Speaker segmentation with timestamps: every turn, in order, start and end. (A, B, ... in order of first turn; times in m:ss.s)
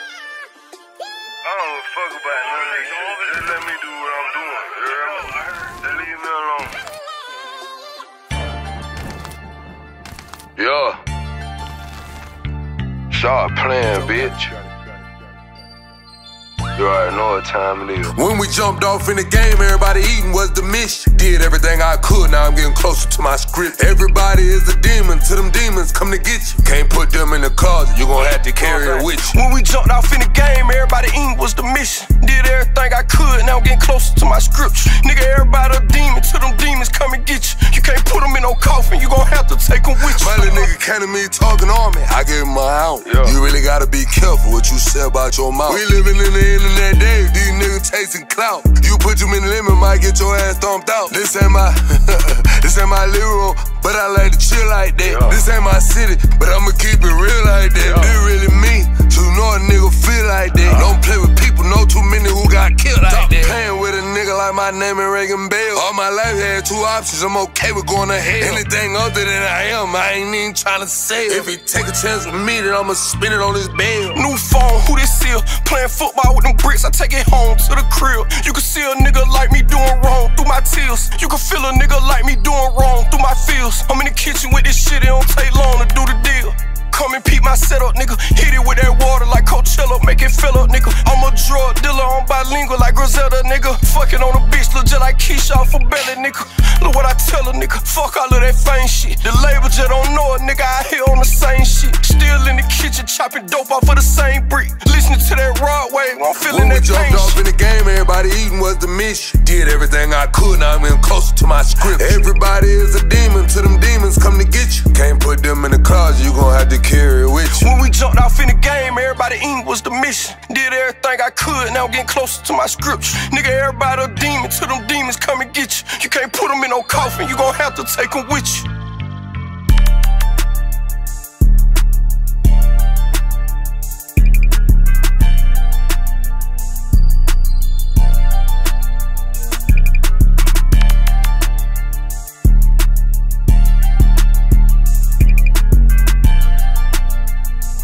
0:01.4-0:06.8 A
0:04.8-0:05.2 B
0:10.6-0:11.0 A
0:13.1-0:14.5 A
0:13.7-0:14.5 B
0:16.8-0:18.2 A
0:18.1-0:29.4 B
0:28.4-0:40.7 C
0:40.0-1:14.2 B
0:43.0-0:43.4 A
0:55.0-0:55.4 A
0:57.8-0:58.2 A
1:00.7-1:01.0 A
1:03.1-1:03.6 A
1:14.1-1:47.4 C
1:46.4-1:57.7 B
1:57.6-2:08.7 C